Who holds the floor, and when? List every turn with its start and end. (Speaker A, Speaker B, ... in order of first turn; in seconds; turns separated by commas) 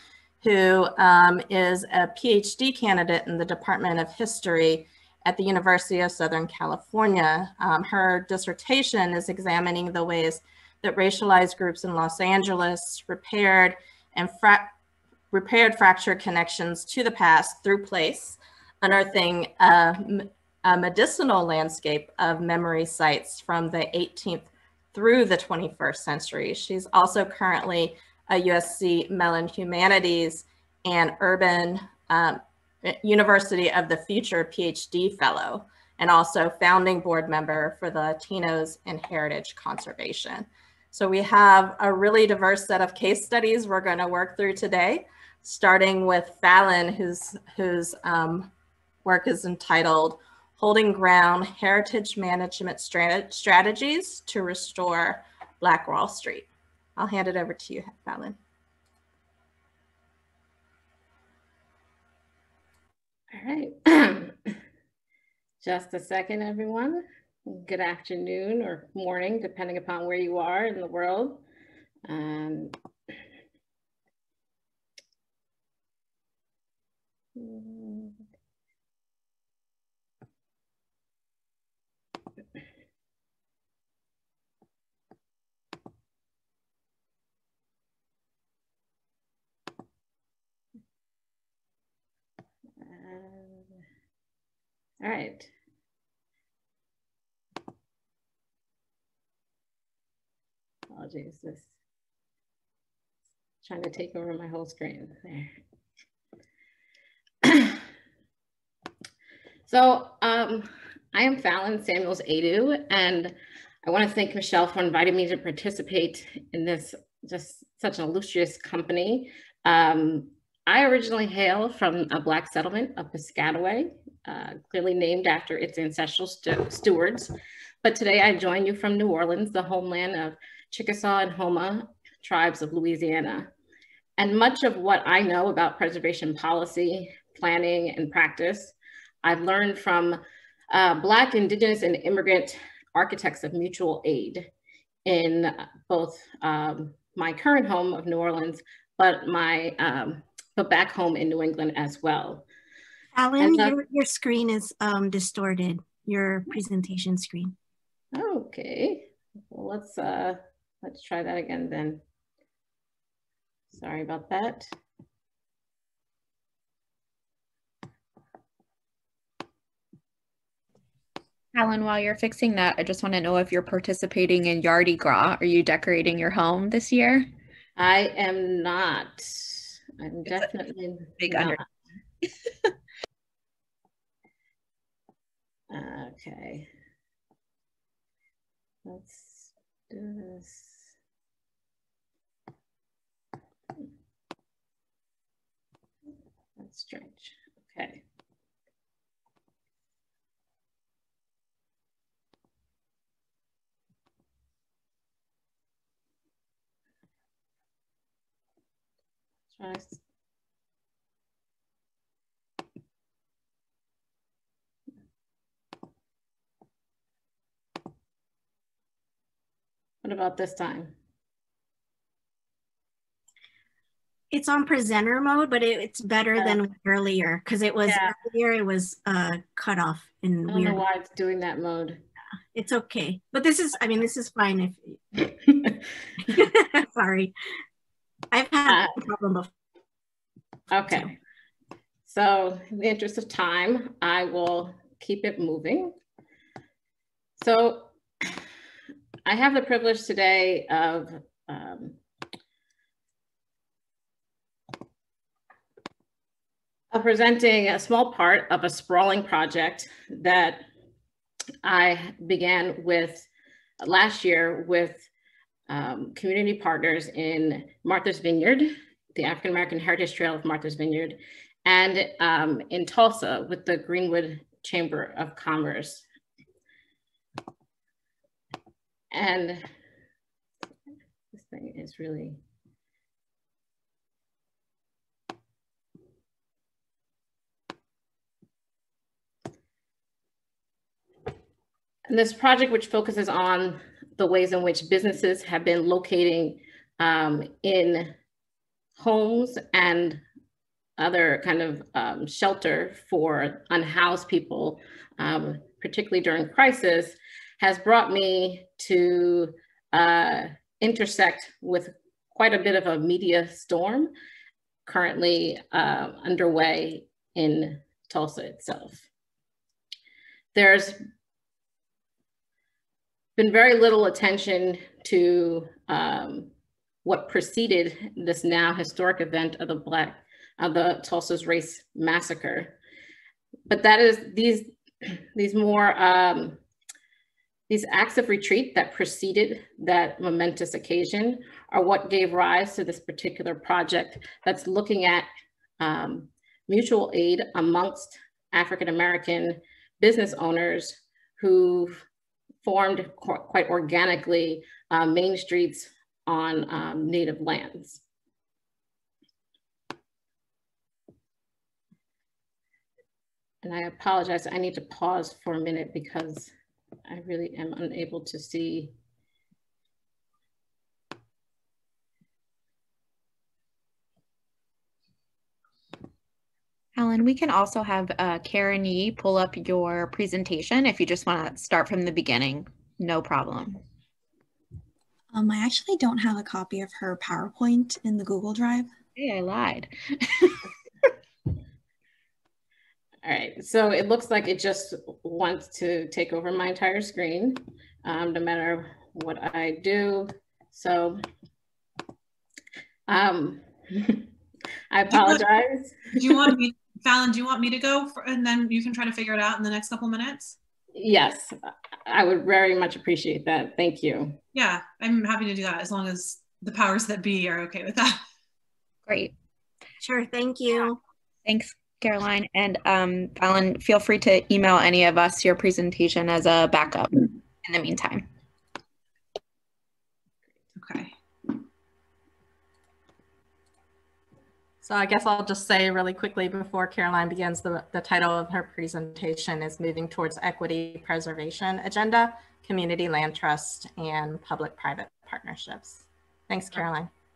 Speaker A: 0.4-14.7, Speaker A: 15.3-48.5, Speaker A: 49.0-58.4, Speaker B: 63.3-64.6, Speaker B: 65.6-71.4, Speaker B: 72.1-72.8, Speaker B: 77.3-78.2, Speaker B: 92.8-93.8, Speaker B: 95.0-95.5, Speaker B: 100.9-101.7, Speaker B: 103.6-105.5, Speaker B: 107.4-107.8, Speaker B: 109.7-127.3, Speaker B: 127.8-133.5, Speaker B: 134.2-140.2, Speaker B: 140.7-144.5, Speaker B: 145.1-152.5, Speaker C: 153.1-157.5, Speaker B: 153.4-153.8, Speaker B: 158.1-162.0, Speaker B: 163.7-164.7, Speaker D: 171.5-177.3, Speaker B: 177.8-181.6, Speaker B: 185.7-186.7, Speaker B: 188.8-190.8, Speaker B: 196.6-198.0, Speaker B: 209.6-210.0, Speaker B: 220.0-220.9, Speaker C: 224.3-230.8, Speaker B: 227.8-228.1, Speaker B: 230.5-232.0, Speaker C: 232.5-235.3, Speaker C: 236.3-237.3, Speaker C: 238.3-239.5, Speaker B: 238.7-238.9, Speaker B: 240.7-241.1, Speaker B: 242.1-245.9, Speaker B: 247.4-248.4, Speaker B: 249.3-252.0, Speaker B: 256.9-260.6, Speaker B: 261.6-263.3, Speaker B: 263.8-265.1, Speaker B: 265.7-276.0, Speaker B: 279.1-279.7, Speaker B: 281.3-282.4, Speaker B: 292.1-298.1, Speaker B: 299.0-300.2, Speaker B: 301.0-314.1, Speaker B: 314.9-319.1, Speaker B: 320.5-321.0, Speaker B: 323.4-326.5, Speaker B: 327.0-332.8, Speaker B: 333.7-336.6, Speaker B: 337.7-345.3, Speaker B: 345.8-352.0, Speaker B: 352.6-358.0, Speaker B: 363.6-366.5, Speaker B: 367.1-368.9, Speaker D: 376.9-383.8, Speaker E: 385.3-388.9, Speaker D: 389.1-389.9, Speaker B: 393.2-401.2, Speaker B: 403.1-404.3, Speaker B: 404.9-406.5, Speaker F: 405.1-405.4, Speaker F: 406.1-410.5, Speaker B: 410.9-411.5, Speaker B: 412.1-414.4, Speaker F: 414.5-418.2, Speaker D: 419.1-419.3, Speaker C: 420.0-421.0, Speaker D: 421.4-428.3, Speaker F: 430.8-431.1, Speaker A: 434.8-447.1